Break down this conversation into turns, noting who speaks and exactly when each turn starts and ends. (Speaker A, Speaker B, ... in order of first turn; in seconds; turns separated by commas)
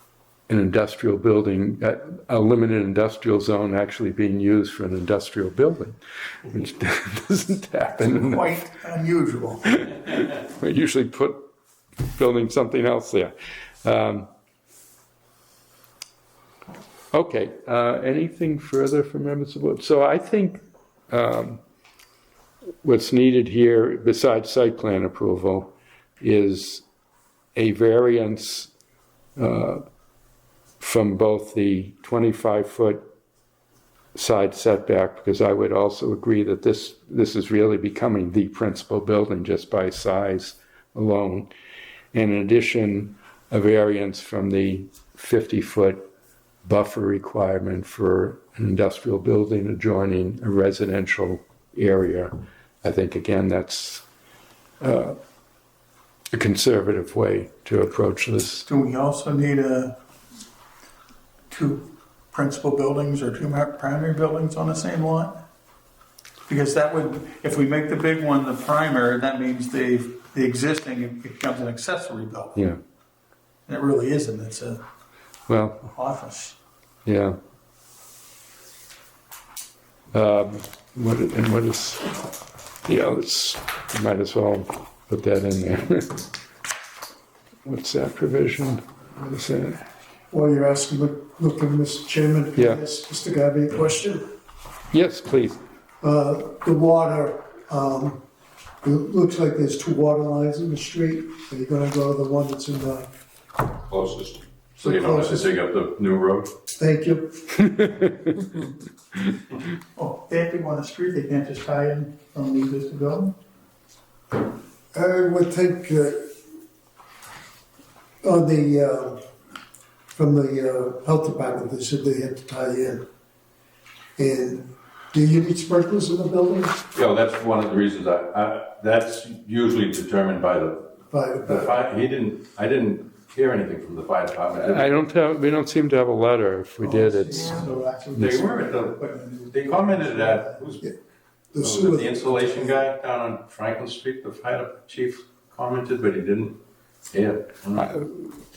Speaker A: 0.5-8.6, Speaker B: 8.0-9.8, Speaker A: 9.7-11.4, Speaker A: 12.0-13.3, Speaker A: 13.8-14.3, Speaker A: 17.1-21.6, Speaker A: 22.8-26.8, Speaker A: 27.6-28.7, Speaker A: 29.4-29.8, Speaker A: 30.8-33.0, Speaker A: 34.1-41.5, Speaker A: 42.1-46.1, Speaker A: 46.6-54.0, Speaker A: 54.8-55.2, Speaker A: 56.3-58.6, Speaker B: 58.7-59.9, Speaker B: 61.5-65.3, Speaker B: 66.5-72.6, Speaker B: 73.7-74.8, Speaker A: 75.5-75.8, Speaker B: 75.9-76.5, Speaker A: 77.0-77.4, Speaker A: 80.1-82.1, Speaker A: 82.8-86.2, Speaker A: 87.6-89.8, Speaker C: 90.3-94.3, Speaker A: 92.5-92.8, Speaker A: 94.9-95.6, Speaker C: 96.0-98.2, Speaker C: 98.8-103.1, Speaker D: 103.8-106.5, Speaker C: 104.8-105.5, Speaker C: 106.8-107.4, Speaker A: 107.7-108.1, Speaker B: 109.9-113.3, Speaker C: 114.9-116.3, Speaker C: 118.2-119.2, Speaker C: 120.1-123.0, Speaker C: 124.2-126.8, Speaker D: 126.9-134.9, Speaker C: 131.1-131.8, Speaker A: 134.7-137.6, Speaker B: 136.8-140.6, Speaker C: 137.0-137.3, Speaker D: 138.2-140.8, Speaker C: 141.5-142.9, Speaker D: 141.6-146.6, Speaker D: 147.1-147.9, Speaker A: 147.8-148.4